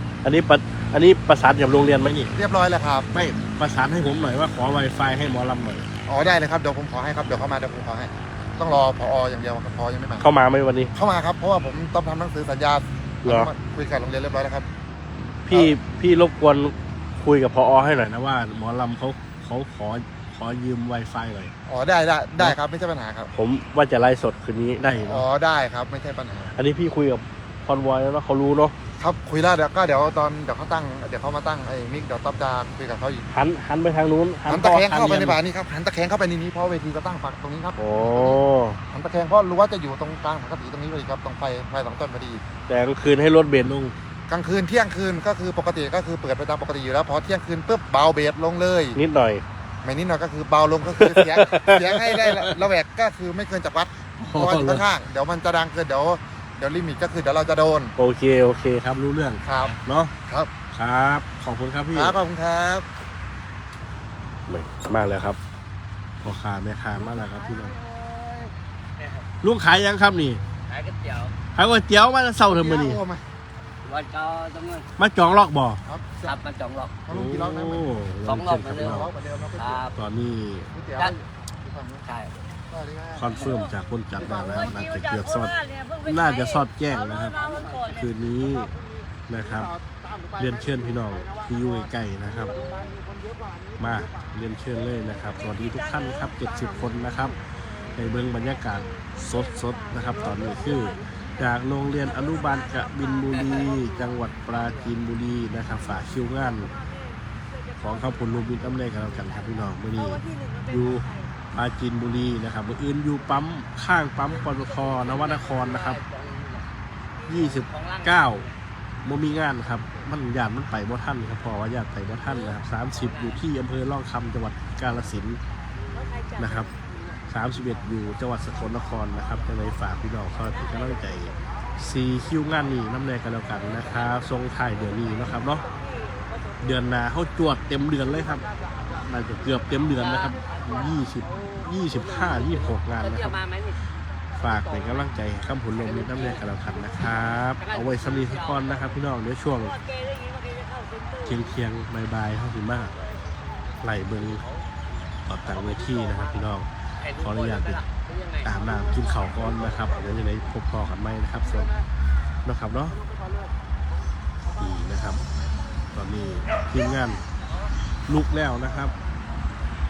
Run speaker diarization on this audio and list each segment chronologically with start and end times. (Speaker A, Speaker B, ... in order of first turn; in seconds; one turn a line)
Speaker A: 0.2-2.3
Speaker B: 2.4-3.1
Speaker A: 3.1-5.9
Speaker B: 6.1-10.3
Speaker A: 10.2-10.9
Speaker B: 10.9-14.7
Speaker A: 13.2-13.5
Speaker A: 15.5-21.5
Speaker B: 21.7-23.3
Speaker A: 23.3-25.2
Speaker B: 25.0-26.6
Speaker A: 26.6-28.8
Speaker B: 29.0-33.3
Speaker A: 33.3-35.4
Speaker B: 34.5-38.4
Speaker A: 37.8-38.8
Speaker B: 38.9-42.4
Speaker A: 42.7-44.0
Speaker B: 44.3-49.0
Speaker A: 49.0-49.5
Speaker B: 49.8-58.0
Speaker A: 51.0-52.6
Speaker A: 54.2-54.8
Speaker A: 58.0-60.1
Speaker B: 59.5-60.5
Speaker A: 60.7-62.2
Speaker B: 61.9-62.9
Speaker A: 64.5-65.4
Speaker A: 66.2-67.8
Speaker C: 69.0-69.2
Speaker A: 69.4-70.4
Speaker C: 70.7-71.3
Speaker A: 71.5-73.0
Speaker B: 72.5-73.2
Speaker C: 73.8-74.9
Speaker A: 75.0-75.8
Speaker B: 75.8-76.4
Speaker C: 76.2-77.0
Speaker B: 77.1-77.8
Speaker A: 77.1-79.1
Speaker C: 78.2-79.9
Speaker B: 78.8-79.9
Speaker A: 80.0-80.7
Speaker B: 80.7-82.1
Speaker C: 82.1-82.4
Speaker B: 82.7-83.5
Speaker A: 83.2-88.7
Speaker C: 87.4-87.8
Speaker A: 89.3-89.7
Speaker A: 90.3-92.6
Speaker A: 93.8-97.4
Speaker A: 97.9-106.7
Speaker A: 107.8-116.0
Speaker C: 114.8-116.7
Speaker A: 117.3-118.5
Speaker C: 117.4-118.6
Speaker A: 119.0-125.4
Speaker C: 122.9-123.4
Speaker A: 126.4-126.7
Speaker A: 127.3-135.7
Speaker A: 136.6-138.4
Speaker A: 139.0-143.4
Speaker C: 140.0-140.5
Speaker C: 142.0-143.8
Speaker A: 144.4-149.8
Speaker C: 144.6-145.1
Speaker C: 145.8-146.4
Speaker C: 147.6-149.0
Speaker A: 151.2-152.9
Speaker A: 153.8-154.5
Speaker A: 155.3-157.8
Speaker C: 155.5-156.3
Speaker C: 157.0-158.5
Speaker A: 158.4-161.7
Speaker A: 162.4-163.0
Speaker A: 164.5-165.2
Speaker A: 165.9-167.2
Speaker A: 168.1-168.9